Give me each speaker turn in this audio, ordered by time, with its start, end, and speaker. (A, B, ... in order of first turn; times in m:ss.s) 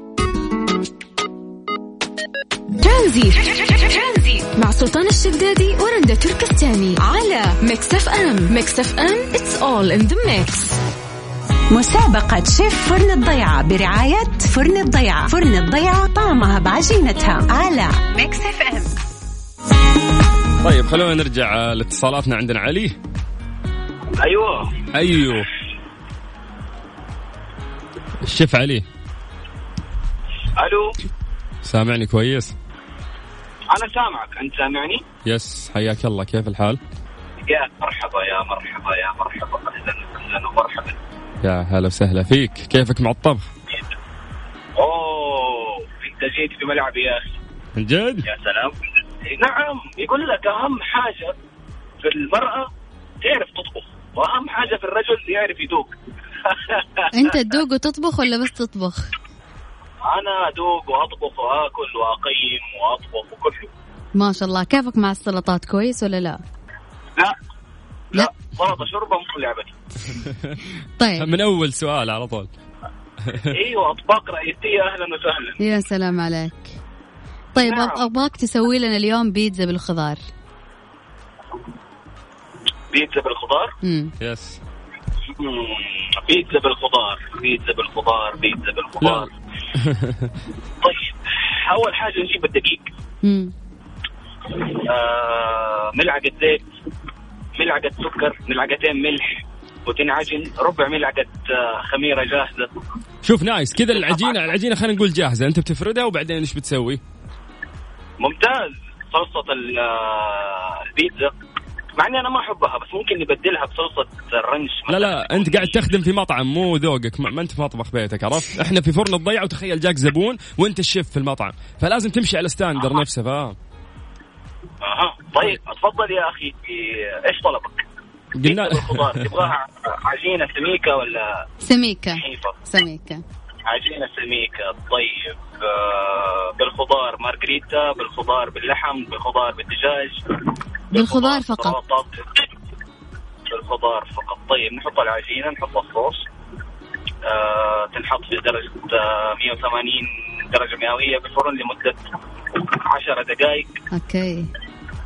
0:02.8-0:10.8 A
0:11.7-0:18.9 B
0:20.6-0:23.0 C
0:24.2-0:24.8 D
0:24.9-0:25.5 C
0:28.2-0:28.8 C
0:30.6-0:31.0 D
0:31.6-0:32.5 C
0:33.7-0:35.0 D
0:35.2-0:36.8 C
0:37.4-0:41.0 D
0:41.4-0:43.5 C
0:44.8-0:47.4 D
0:47.8-0:48.3 C
0:48.2-0:51.3 D
0:52.0-0:52.7 D
0:53.2-0:55.9 D
0:56.4-0:57.1 D
0:57.1-0:59.1 E
1:00.0-1:03.7 D
1:04.2-1:06.4 E
1:08.1-1:09.8 D
1:10.1-1:10.6 C
1:11.0-1:11.3 E
1:11.2-1:12.5 C
1:13.2-1:13.5 C
1:13.5-1:15.6 D
1:15.6-1:16.8 E
1:17.6-1:18.0 D
1:17.6-1:20.2 E
1:22.9-1:23.7 D
1:23.8-1:24.1 E
1:24.2-1:24.6 C
1:25.2-1:29.3 D
1:29.0-1:30.3 C
1:30.8-1:32.8 D
1:33.2-1:33.5 E
1:34.5-1:36.6 D
1:37.6-1:42.7 D
1:43.2-1:47.0 C
1:44.0-1:44.3 D
1:48.2-1:51.3 D
1:52.0-1:55.8 D
1:54.9-2:03.6 C
2:04.8-2:07.8 D
2:08.4-2:09.5 C
2:08.4-2:11.4 D
2:11.6-2:13.2 E
2:12.2-2:12.5 D
2:13.6-2:20.2 D
2:20.9-2:22.5 D
2:20.9-2:21.8 E
2:23.5-2:26.2 D
2:27.2-2:32.0 D
2:32.5-2:33.7 D
2:33.9-2:34.5 E